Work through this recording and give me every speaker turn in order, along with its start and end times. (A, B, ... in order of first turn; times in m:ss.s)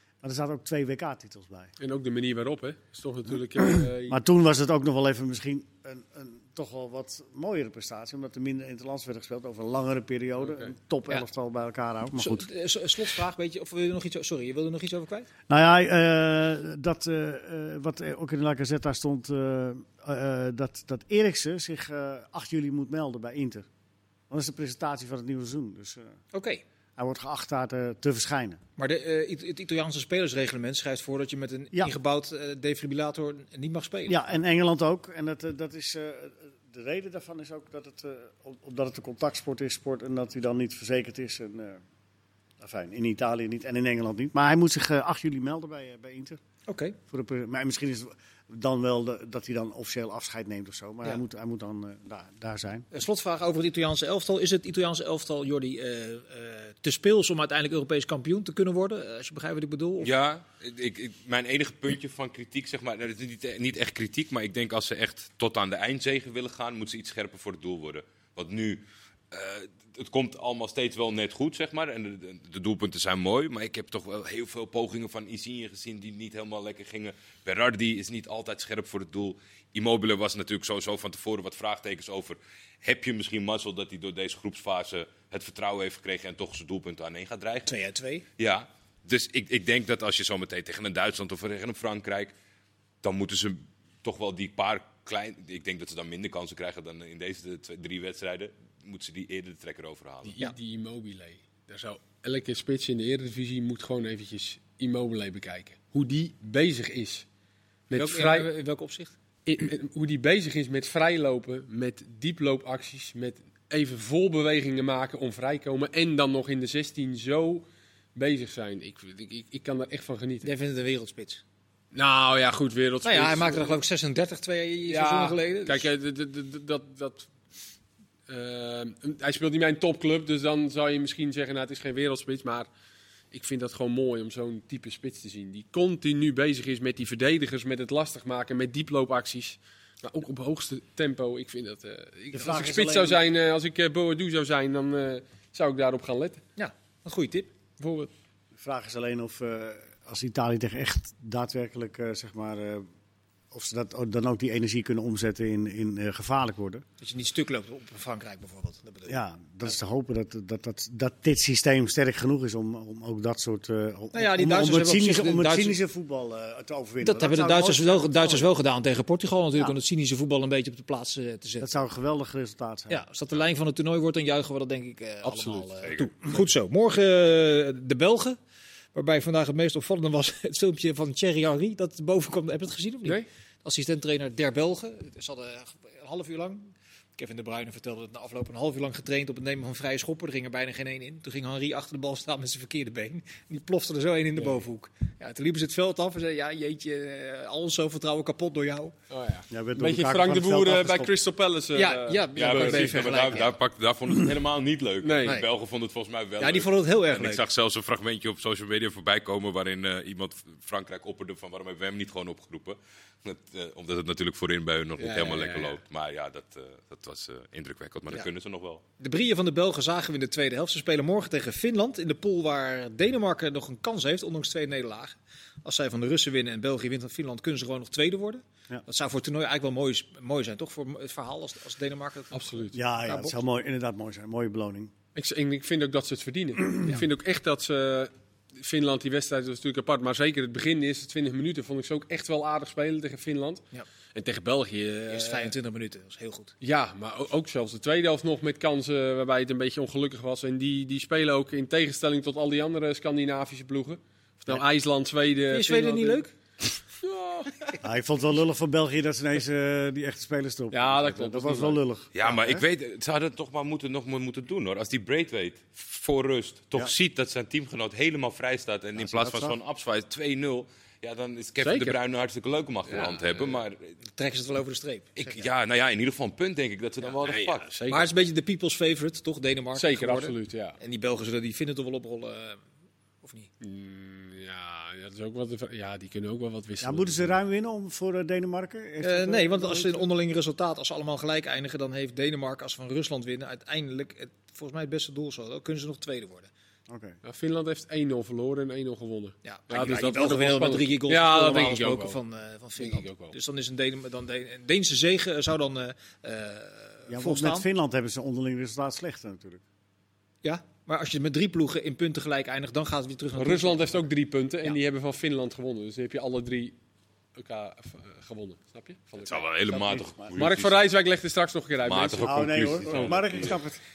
0:00.2-0:01.7 A
0:01.8-0:04.2 B
0:04.1-0:12.5 A
0:10.4-0:10.7 B
0:12.2-0:15.3 C
0:15.5-0:23.7 A
0:24.3-0:26.2 A
0:26.3-0:26.6 C
0:27.0-0:28.6 A
0:28.8-0:34.2 C
0:34.1-0:41.8 A
0:42.6-0:46.4 A
0:46.7-0:47.0 C
0:47.1-0:52.9 A
0:52.9-1:00.1 C
1:00.0-1:27.7 D
1:27.7-1:28.2 C
1:28.4-1:32.4 D
1:33.0-1:40.3 D
1:40.2-1:47.2 B
1:47.9-1:48.5 B
1:48.0-1:49.2 C
1:49.5-2:00.5 B
2:00.4-2:01.4 C
2:01.9-2:03.8 B
2:03.0-2:05.9 C
2:04.9-2:07.3 B
2:08.3-2:12.7 B
2:13.3-2:26.4 B
2:22.3-2:23.2 A
2:26.6-2:28.1 C
2:28.6-2:32.9 A
2:33.5-2:36.8 A
2:37.0-2:39.2 C
2:39.1-2:48.5 A
2:44.1-2:45.8 C
2:47.0-2:51.7 C
2:51.6-2:53.0 A
2:52.9-2:58.4 C
2:55.2-2:55.7 B
2:55.8-2:56.1 D
2:58.9-3:18.9 C
3:14.4-3:14.6 B
3:19.1-3:23.1 B
3:19.5-3:21.2 A
3:21.8-3:23.5 C
3:22.4-3:38.8 D
3:25.0-3:25.4 B
3:26.4-3:27.4 C
3:35.0-3:35.8 B
3:39.0-3:53.4 C
3:52.3-3:52.7 B
3:52.7-3:54.9 A
3:55.2-4:05.5 B
4:05.1-4:06.5 C
4:06.6-4:16.2 B
4:15.5-4:16.3 C
4:17.0-4:17.7 B
4:17.8-4:22.6 A
4:20.7-4:21.8 B
4:22.2-4:33.9 D
4:29.0-4:29.6 A
4:31.6-4:32.0 B
4:32.9-4:33.6 B
4:34.2-4:35.5 C
4:35.2-4:37.7 D
4:37.2-4:38.1 B
4:37.9-4:42.6 C
4:39.8-4:40.8 B
4:43.2-4:43.5 C
4:43.6-4:47.3 B
4:46.8-4:50.1 A
4:49.0-4:56.5 C
4:56.9-4:57.2 A
4:57.2-5:02.2 B
4:59.4-5:07.7 C
5:02.8-5:03.3 B
5:07.1-5:09.6 A
5:10.4-5:14.0 C
5:13.4-5:16.8 B
5:17.4-5:19.5 B
5:19.2-5:20.8 D
5:19.7-5:20.4 A
5:20.4-5:23.5 B
5:21.8-5:23.6 D
5:22.2-5:23.8 A